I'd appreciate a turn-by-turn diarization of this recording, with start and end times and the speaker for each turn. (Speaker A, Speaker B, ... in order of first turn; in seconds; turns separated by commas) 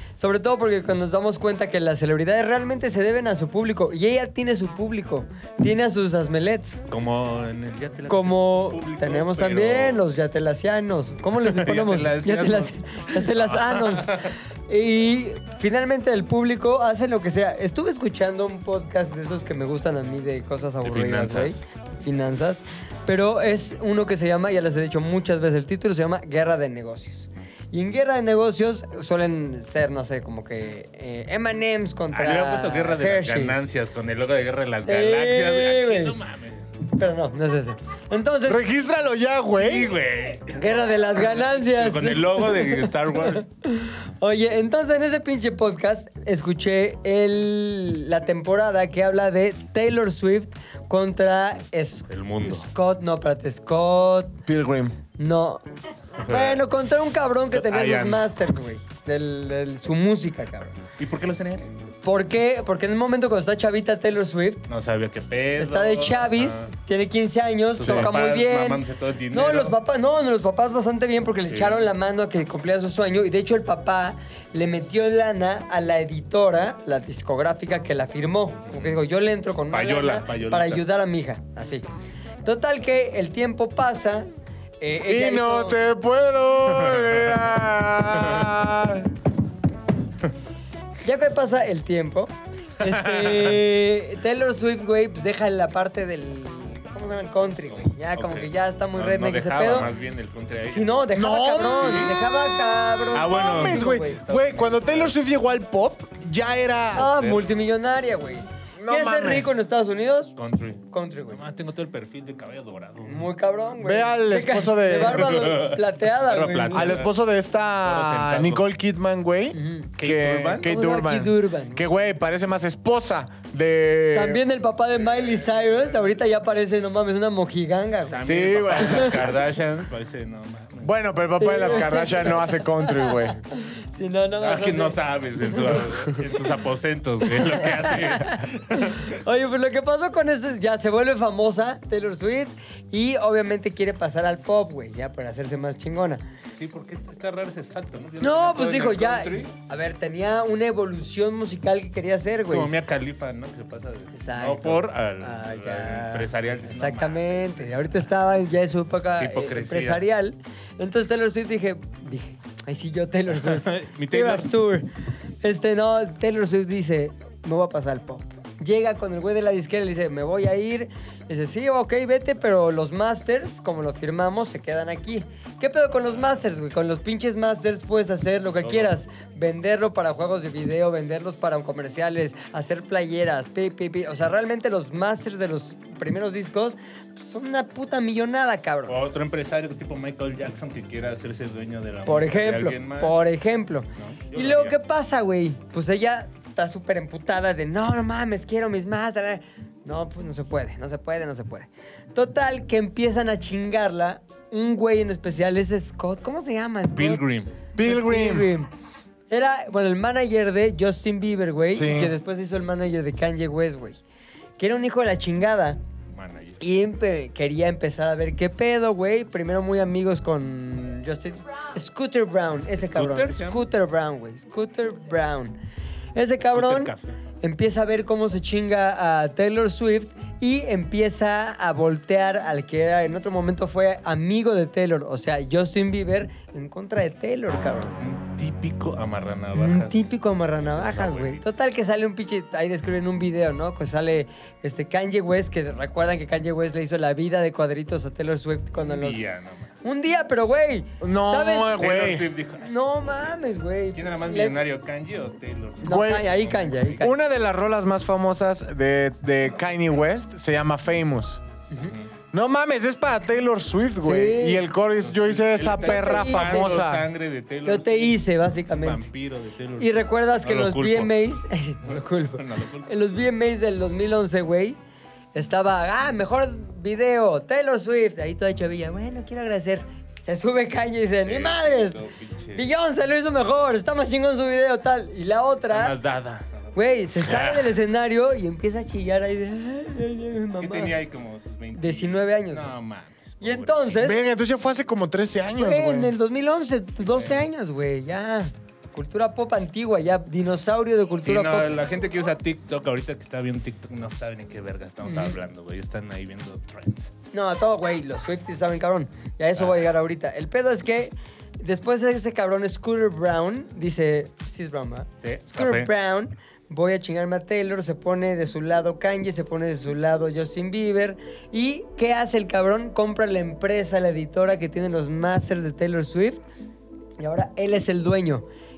Speaker A: 0.2-6.8, Speaker B: 6.9-10.0, Speaker A: 8.1-33.6, Speaker B: 11.4-14.3, Speaker B: 20.8-21.6, Speaker B: 32.1-36.7, Speaker A: 34.8-36.1, Speaker A: 36.9-38.6, Speaker C: 38.5-39.9, Speaker B: 39.5-40.6, Speaker A: 40.5-54.4, Speaker B: 41.2-43.5, Speaker B: 52.1-52.7, Speaker C: 54.5-55.0, Speaker A: 55.2-55.6, Speaker A: 56.2-60.8, Speaker B: 56.2-56.6, Speaker B: 57.5-58.3, Speaker B: 61.0-61.6, Speaker A: 62.0-64.7, Speaker B: 64.7-66.7, Speaker A: 65.6-81.8, Speaker B: 67.8-69.7, Speaker B: 71.5-71.9, Speaker B: 78.7-79.0, Speaker B: 79.7-80.8, Speaker A: 82.4-84.3, Speaker A: 84.8-85.8, Speaker C: 85.0-89.1, Speaker B: 86.7-87.3, Speaker B: 88.2-88.5, Speaker A: 91.0-99.9, Speaker B: 92.8-93.6, Speaker B: 97.7-101.0, Speaker A: 100.7-104.2, Speaker C: 101.1-102.4, Speaker B: 101.6-102.1, Speaker B: 103.1-105.1, Speaker C: 103.1-107.1, Speaker B: 106.9-107.5, Speaker A: 106.9-110.3, Speaker C: 108.8-109.5, Speaker B: 110.4-113.2, Speaker A: 110.9-111.4, Speaker A: 113.0-117.0, Speaker C: 113.8-115.5, Speaker B: 115.0-117.1, Speaker C: 116.7-124.4, Speaker B: 117.8-118.7, Speaker A: 119.5-119.9, Speaker B: 120.0-120.7, Speaker A: 120.6-121.8, Speaker A: 124.1-129.2, Speaker B: 128.1-130.9, Speaker C: 128.2-129.2, Speaker C: 130.8-133.4, Speaker A: 131.4-135.0, Speaker B: 134.4-139.1, Speaker A: 135.6-135.8, Speaker A: 137.3-146.2, Speaker B: 146.6-149.5, Speaker A: 148.2-152.7, Speaker B: 152.5-157.8, Speaker A: 154.1-164.9, Speaker B: 159.2-160.0, Speaker B: 163.3-164.5, Speaker A: 165.4-189.0, Speaker B: 178.6-178.9, Speaker B: 188.9-193.2, Speaker A: 192.1-207.2, Speaker B: 193.9-194.8, Speaker B: 206.9-207.5, Speaker C: 207.7-208.5, Speaker A: 207.8-208.7, Speaker A: 209.3-214.0, Speaker C: 211.7-212.1, Speaker A: 214.6-215.8, Speaker B: 216.1-216.6, Speaker A: 216.6-225.6, Speaker B: 222.7-223.6, Speaker A: 226.1-237.9, Speaker B: 226.4-227.2, Speaker B: 238.0-240.0, Speaker A: 239.6-249.2, Speaker B: 240.7-241.4, Speaker B: 248.8-249.7, Speaker A: 249.8-251.8, Speaker C: 251.0-252.3, Speaker B: 251.6-252.7, Speaker A: 252.6-254.6, Speaker B: 253.9-257.0, Speaker A: 255.8-257.2, Speaker C: 255.8-256.3, Speaker C: 257.0-261.4, Speaker C: 262.3-267.1, Speaker A: 264.0-264.6, Speaker B: 265.0-271.1, Speaker A: 265.8-266.8, Speaker A: 267.6-269.0, Speaker A: 269.8-274.8, Speaker B: 271.8-272.9, Speaker A: 275.3-282.0, Speaker B: 281.2-282.6, Speaker A: 282.5-285.9, Speaker B: 285.7-287.7, Speaker A: 286.7-290.9, Speaker B: 290.6-294.1, Speaker A: 291.7-292.7, Speaker A: 293.4-294.2, Speaker C: 294.0-296.1, Speaker A: 295.5-301.7, Speaker B: 297.1-297.4, Speaker B: 301.2-307.1, Speaker A: 305.0-305.4, Speaker A: 307.3-326.4, Speaker B: 315.2-315.9, Speaker A: 327.2-328.4